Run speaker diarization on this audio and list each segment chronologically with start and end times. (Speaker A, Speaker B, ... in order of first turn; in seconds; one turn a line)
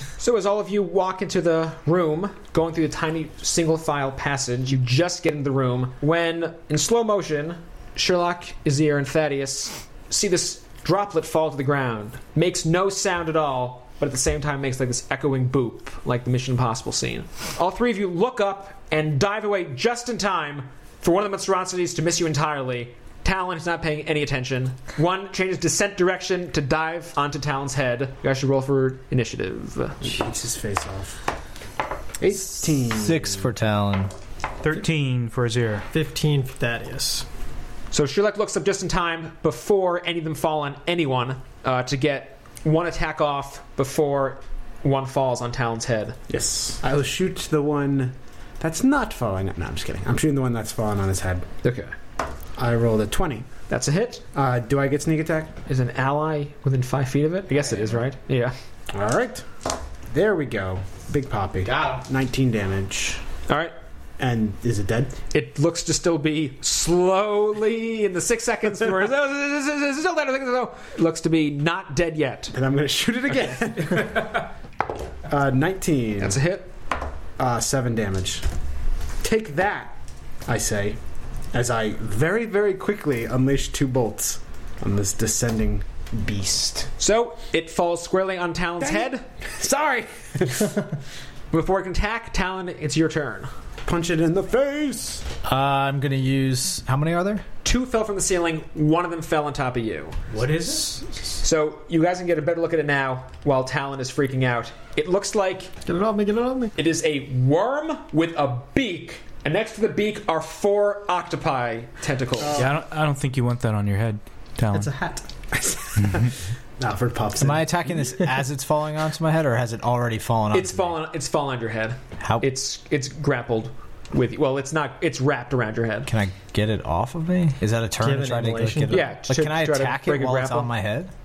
Speaker A: 0.2-30.1
Speaker B: 30.0-31.2
Speaker B: 32.2-33.5
Speaker C: 32.9-34.1
Speaker D: 34.6-35.9
Speaker E: 35.9-37.2
Speaker A: 37.9-46.2
Speaker B: 46.3-51.5
Speaker A: 51.6-51.9
Speaker B: 52.6-53.5
Speaker A: 53.7-54.2
Speaker B: 54.3-55.6
Speaker A: 55.7-58.5
Speaker B: 58.9-59.5
Speaker B: 60.1-63.2
Speaker A: 63.5-63.7
Speaker B: 64.2-65.1
Speaker A: 65.3-72.5
Speaker B: 72.5-74.4
Speaker B: 75.3-76.4
Speaker A: 76.2-76.7
Speaker B: 77.4-78.4
Speaker B: 79.2-79.9
Speaker B: 80.5-81.0
Speaker B: 81.5-86.9
Speaker A: 87.0-89.2
Speaker B: 88.8-90.7
Speaker A: 91.5-93.5
Speaker B: 93.8-95.2
Speaker C: 95.4-97.4
Speaker A: 97.6-100.2
Speaker D: 100.3-101.0
Speaker A: 101.4-105.7
Speaker E: 105.8-106.7
Speaker A: 106.8-112.6
Speaker B: 112.4-112.7
Speaker D: 112.5-114.9
Speaker E: 114.7-115.2
Speaker B: 115.6-118.1
Speaker C: 117.4-121.0
Speaker A: 120.5-126.1
Speaker C: 122.2-122.5
Speaker C: 126.1-131.1
Speaker E: 128.0-129.0
Speaker A: 128.9-130.7